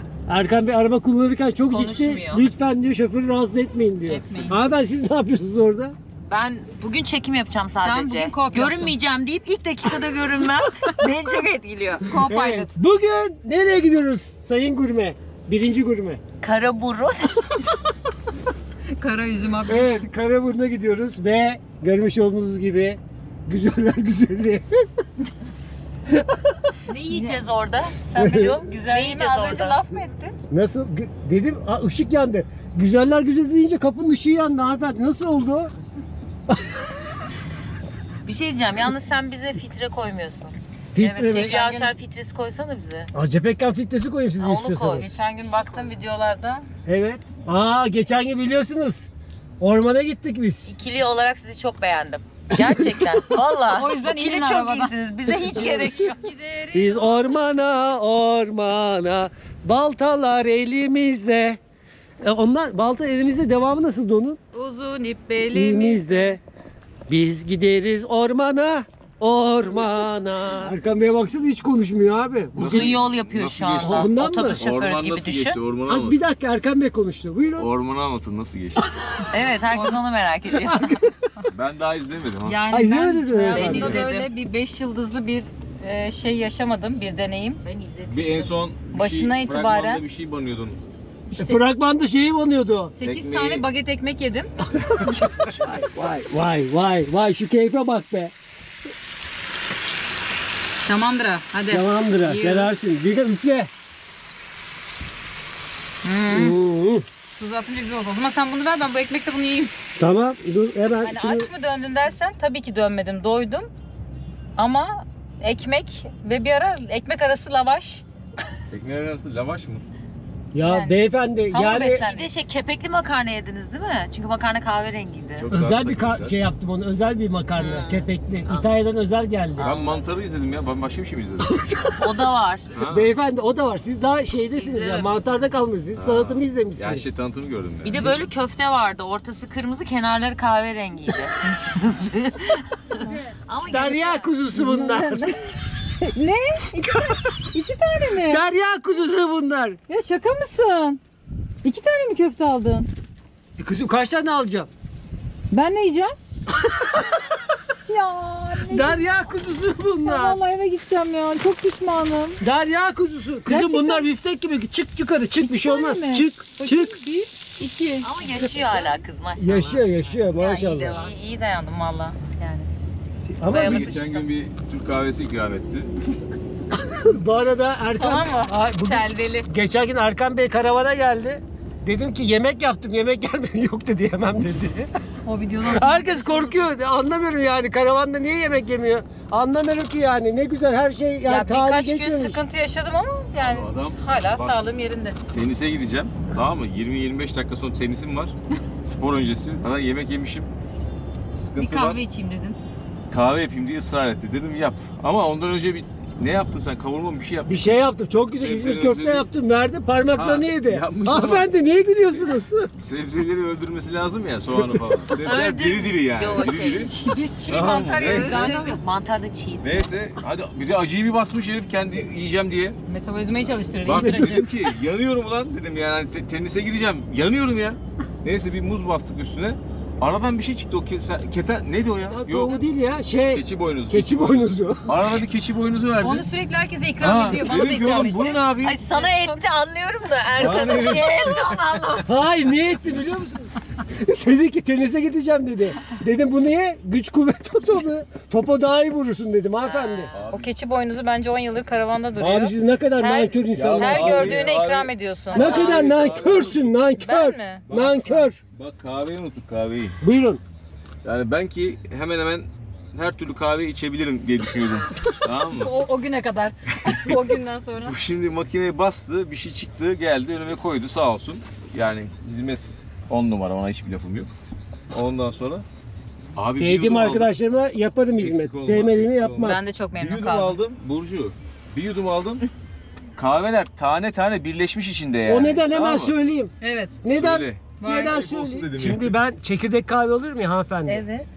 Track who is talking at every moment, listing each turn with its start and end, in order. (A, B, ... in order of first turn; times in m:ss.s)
0:00.3-0:06.0 A
0:01.7-0:02.5 B
0:04.1-0:04.6 C
0:06.3-0:12.1 B
0:07.7-0:09.0 C
0:12.0-0:12.7 C
0:12.2-0:16.2 A
0:16.4-0:17.6 B
0:19.0-0:20.1 C
0:19.7-0:24.8 A
0:26.1-0:26.6 A
0:26.9-0:29.8 B
0:27.1-0:27.4 C
0:28.0-0:30.4 C
0:28.2-0:28.5 A
0:30.5-0:35.7 A
0:38.2-0:40.6 B
0:40.9-0:41.6 A
0:41.0-0:41.9 C
0:41.3-0:43.1 B
0:43.1-0:45.1 A
0:44.4-0:45.9 B
0:44.9-0:46.6 C
0:46.8-0:49.1 A
0:49.6-0:50.7 A
0:50.7-0:56.3 B
0:52.6-0:53.2 A
0:53.6-0:54.9 C
0:55.4-0:55.8 A
0:55.6-0:57.3 C
0:56.7-1:01.6 A
1:02.2-1:04.4 A
1:04.5-1:06.4 C
1:05.5-1:06.4 A
1:07.1-1:13.0 A
1:12.6-1:16.2 D
1:12.6-1:15.6 B
1:13.8-1:14.6 A
1:15.9-1:17.7 A
1:17.6-1:18.9 D
1:19.3-1:21.0 B
1:20.6-1:21.1 A
1:21.5-1:22.6 D
1:22.4-1:27.6 C
1:22.7-1:24.1 A
1:23.5-1:24.3 B
1:27.6-1:28.6 B
1:28.1-1:30.8 D
1:28.9-1:30.0 C
1:31.3-1:31.6 C
1:31.4-1:32.9 A
1:32.9-1:34.5 C
1:33.0-1:33.6 D
1:35.0-1:38.3 A
1:40.8-1:42.7 C
1:41.7-1:43.7 A
1:46.0-1:46.6 C
1:46.3-1:47.0 A
1:47.3-1:49.7 C
1:50.0-1:51.5 A
1:51.0-1:53.7 C
1:54.6-1:58.0 C
1:58.7-1:59.8 D
2:00.5-2:02.0 A
2:00.6-2:00.9 C
2:01.5-2:02.3 C
2:01.8-2:05.5 B
2:05.4-2:06.4 D
2:05.5-2:09.9 A
2:07.6-2:08.0 C
2:08.4-2:08.7 B
2:09.6-2:10.0 B
2:09.6-2:11.6 D
2:11.4-2:12.2 A
2:12.0-2:12.7 B
2:12.7-2:13.0 D
2:12.8-2:17.1 A
2:14.5-2:15.1 B
2:16.0-2:18.2 D
2:17.8-2:24.3 B
2:23.7-2:25.4 A
2:24.5-2:25.5 C
2:26.0-2:28.4 C
2:28.2-2:29.8 A
2:29.9-2:31.0 C
2:31.6-2:32.9 C
2:33.6-2:34.7 A
2:35.5-2:36.1 C
2:37.9-2:39.0 C
2:38.7-2:40.4 A
2:40.0-2:42.4 C
2:42.4-2:46.9 A
2:43.5-2:44.0 C
2:45.4-2:48.1 C
2:48.0-2:51.1 B
2:49.4-2:51.0 A
2:50.4-2:52.7 C
2:53.2-2:54.0 A
2:53.4-2:54.3 C
2:53.5-2:55.9 D
2:56.7-3:04.9 A
2:57.9-2:59.5 C
3:05.2-3:06.7 C
3:05.7-3:12.4 A
3:11.3-3:15.2 C
3:13.3-3:14.5 D
3:15.3-3:20.5 D
3:21.3-3:22.0 D
3:21.6-3:22.6 C
3:23.1-3:27.7 D
3:27.5-3:32.7 A
3:28.4-3:29.3 D
3:30.1-3:31.5 D
3:32.8-3:36.9 D
3:34.6-3:34.8 A
3:35.2-3:35.8 C
3:35.2-3:36.9 B
3:36.9-3:38.8 C
3:37.5-3:38.8 D
3:38.0-3:39.8 B
3:39.6-3:42.8 D
3:42.9-3:44.4 C
3:43.8-3:52.6 D
3:43.9-3:44.5 A
3:52.1-3:55.1 A
3:53.3-3:56.3 D
3:56.0-3:59.4 C
3:57.0-3:58.8 D
3:58.6-4:02.1 B
4:00.4-4:01.7 D
4:02.0-4:10.1 A
4:09.6-4:15.9 C
4:10.1-4:10.5 D
4:12.2-4:14.5 A
4:13.5-4:16.6 D
4:15.3-4:18.4 A
4:17.0-4:18.3 C
4:17.7-4:20.0 D
4:20.0-4:20.4 A
4:21.0-4:25.7 D
4:25.5-4:28.0 C
4:27.8-4:34.3 D
4:34.9-4:35.6 D
4:36.3-4:37.3 D
4:36.5-4:39.6 A
4:38.2-4:42.4 D
4:39.4-4:40.6 C
4:43.2-4:46.2 D
4:45.3-4:51.0 A
4:46.6-4:47.0 C
4:47.1-4:49.1 D
4:47.8-4:48.3 C
4:51.0-4:51.2 C